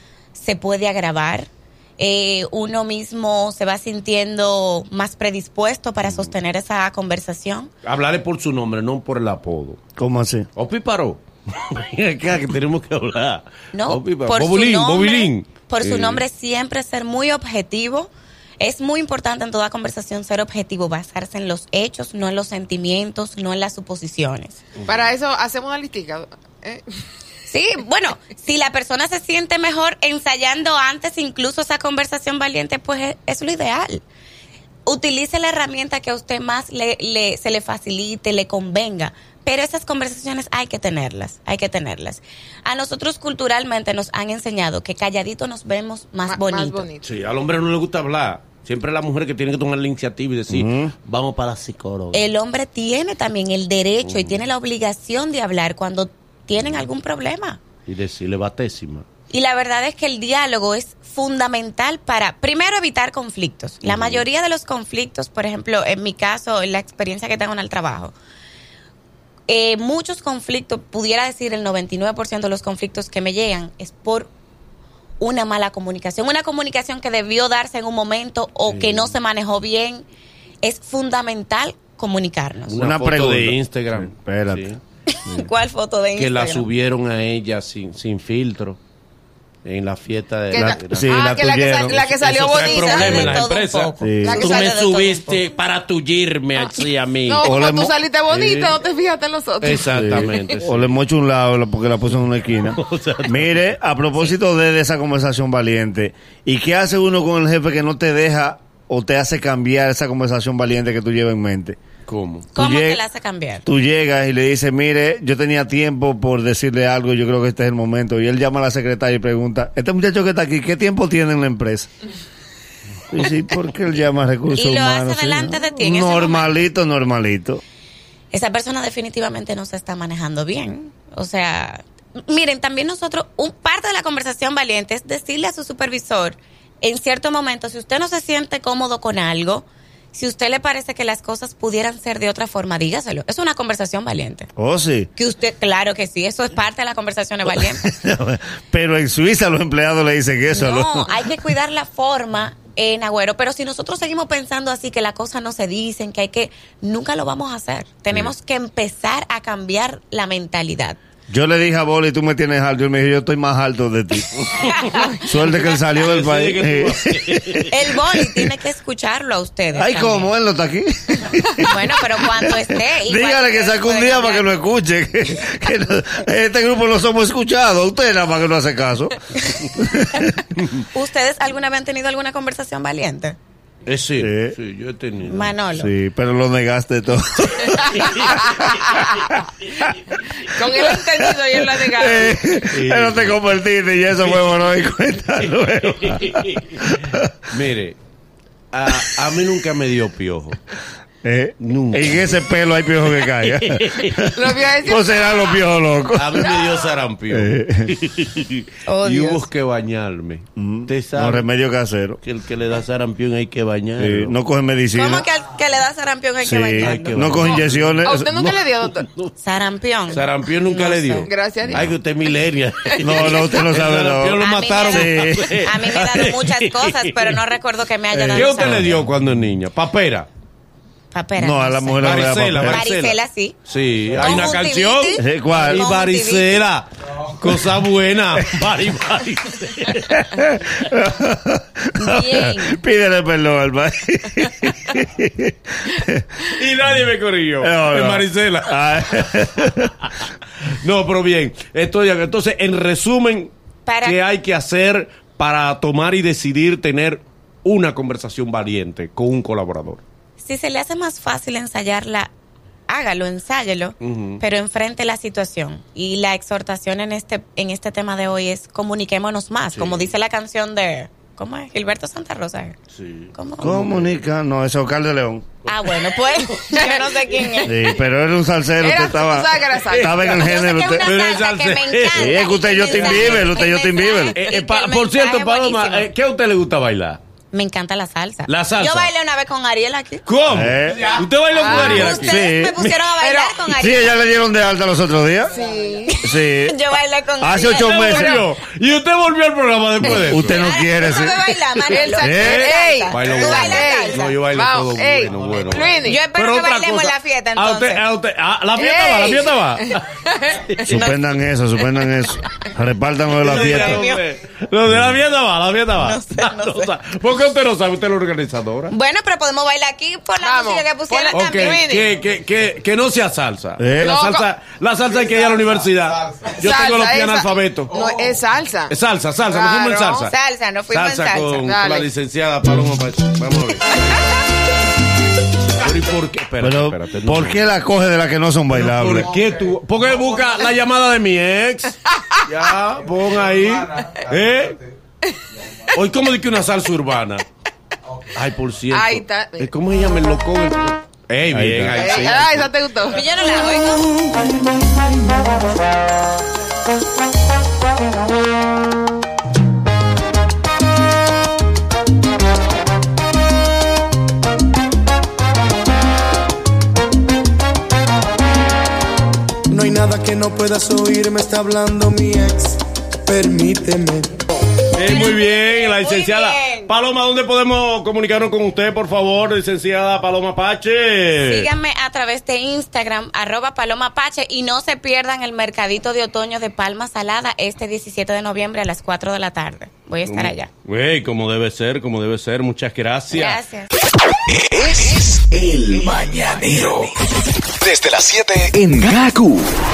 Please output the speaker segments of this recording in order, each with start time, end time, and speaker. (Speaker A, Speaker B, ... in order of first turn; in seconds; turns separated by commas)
Speaker A: 0.3-7.7, Speaker B: 6.0-6.3, Speaker B: 7.8-9.8, Speaker C: 10.0-10.5, Speaker B: 10.5-16.2, Speaker A: 13.7-24.6, Speaker D: 24.9-26.9, Speaker A: 27.5-34.0, Speaker A: 34.9-46.9, Speaker D: 46.3-47.0, Speaker B: 47.0-52.3, Speaker C: 50.5-50.9, Speaker A: 52.1-57.6, Speaker B: 54.0-54.4, Speaker B: 56.6-56.9, Speaker B: 57.9-59.0, Speaker A: 59.3-68.1, Speaker B: 63.8-64.2, Speaker A: 69.5-74.3, Speaker A: 75.2-80.0, Speaker B: 78.7-79.0, Speaker A: 80.6-82.8, Speaker B: 82.7-84.8, Speaker C: 82.8-84.7, Speaker A: 85.1-86.7, Speaker B: 86.1-88.8, Speaker B: 89.6-91.3, Speaker D: 90.5-93.4, Speaker C: 90.5-92.2, Speaker B: 91.9-97.5, Speaker A: 92.5-95.5, Speaker C: 94.0-94.5, Speaker D: 94.2-94.7, Speaker D: 97.3-100.5, Speaker C: 97.4-97.9, Speaker B: 98.3-98.8, Speaker B: 99.6-100.9, Speaker C: 99.9-111.8, Speaker B: 102.5-103.6, Speaker B: 112.1-112.5, Speaker A: 112.5-113.6, Speaker C: 112.5-113.0, Speaker C: 113.7-121.9, Speaker C: 123.1-127.6, Speaker A: 124.5-126.6, Speaker A: 128.3-144.5, Speaker C: 144.6-145.1, Speaker A: 145.2-147.8, Speaker C: 147.5-151.3, Speaker A: 150.5-161.0, Speaker C: 161.3-164.5, Speaker B: 164.5-164.9, Speaker C: 165.1-168.6, Speaker B: 165.9-167.8, Speaker A: 167.7-170.3, Speaker C: 169.7-180.3, Speaker A: 171.7-174.5, Speaker A: 180.1-183.4, Speaker B: 183.8-185.6, Speaker C: 184.2-184.5, Speaker A: 185.2-185.9, Speaker C: 185.7-189.5, Speaker D: 188.0-189.4, Speaker B: 188.0-188.6, Speaker D: 190.5-192.4, Speaker C: 191.7-197.4, Speaker B: 192.7-193.4, Speaker B: 194.2-194.5, Speaker B: 196.0-196.8, Speaker B: 197.5-198.0, Speaker B: 198.7-200.7, Speaker C: 201.2-206.6, Speaker B: 201.6-204.5, Speaker D: 204.3-205.6, Speaker B: 206.1-211.5, Speaker D: 206.5-206.8, Speaker C: 207.3-207.9, Speaker A: 208.8-209.5, Speaker C: 210.6-212.2, Speaker B: 212.2-214.3, Speaker C: 214.0-215.2, Speaker A: 214.9-217.6, Speaker C: 216.4-218.5, Speaker B: 216.8-218.1, Speaker D: 218.0-219.1, Speaker B: 218.8-219.3, Speaker A: 219.4-220.3, Speaker B: 220.1-227.4, Speaker D: 220.7-221.9, Speaker C: 221.7-221.9, Speaker C: 223.0-225.7, Speaker A: 224.3-229.0, Speaker C: 228.1-229.1, Speaker B: 228.3-230.3, Speaker A: 231.1-233.6, Speaker C: 231.4-232.8, Speaker B: 232.0-240.9, Speaker A: 234.2-236.6, Speaker C: 235.2-235.9, Speaker C: 240.1-246.4, Speaker A: 242.0-242.8, Speaker B: 246.4-260.0, Speaker C: 247.6-250.1, Speaker A: 253.8-254.2, Speaker A: 260.4-262.3, Speaker A: 262.9-272.8, Speaker B: 264.0-264.4, Speaker B: 269.7-270.1, Speaker B: 272.9-274.2, Speaker A: 273.3-273.8, Speaker C: 273.6-275.5, Speaker A: 275.6-277.9, Speaker B: 275.7-276.6, Speaker D: 276.7-277.8, Speaker C: 277.6-281.1, Speaker D: 278.8-280.4, Speaker B: 279.9-280.5, Speaker A: 280.3-286.1, Speaker B: 281.0-283.5, Speaker C: 282.1-284.4, Speaker B: 284.3-287.2, Speaker A: 287.5-290.2, Speaker B: 288.4-289.1, Speaker B: 290.2-292.4, Speaker C: 290.5-292.9, Speaker D: 291.5-292.1, Speaker A: 291.6-294.1, Speaker D: 293.2-293.6, Speaker C: 293.7-295.6, Speaker D: 295.5-296.2, Speaker A: 296.1-298.3, Speaker C: 296.2-296.8, Speaker C: 297.4-298.4, Speaker B: 297.7-300.6, Speaker D: 298.0-298.4, Speaker C: 300.0-301.5, Speaker A: 300.4-304.3, Speaker D: 301.9-306.2, Speaker C: 302.2-302.7, Speaker B: 302.5-311.1, Speaker A: 306.0-308.0, Speaker D: 308.7-311.1, Speaker C: 310.9-314.1, Speaker B: 313.3-318.9, Speaker A: 313.4-314.2, Speaker A: 315.9-316.9, Speaker A: 318.9-321.8, Speaker D: 320.4-322.1, Speaker B: 321.3-328.1, Speaker C: 323.8-324.1, Speaker D: 324.0-324.4, Speaker D: 326.4-328.9, Speaker B: 328.9-330.3, Speaker D: 329.5-330.3, Speaker A: 330.3-331.7, Speaker B: 330.9-334.2, Speaker D: 331.6-332.1, Speaker B: 335.8-337.7, Speaker C: 336.6-339.3, Speaker B: 338.7-344.8, Speaker D: 342.1-342.4, Speaker B: 345.9-347.4, Speaker B: 348.2-352.7, Speaker D: 348.9-349.7, Speaker C: 351.5-352.1, Speaker D: 351.9-353.3, Speaker A: 353.1-354.1, Speaker E: 369.7-374.4, Speaker B: 374.9-381.7, Speaker A: 375.0-376.9, Speaker A: 381.4-390.7, Speaker B: 390.2-393.6, Speaker A: 393.3-393.9, Speaker F: 394.6-397.1, Speaker F: 397.8-399.6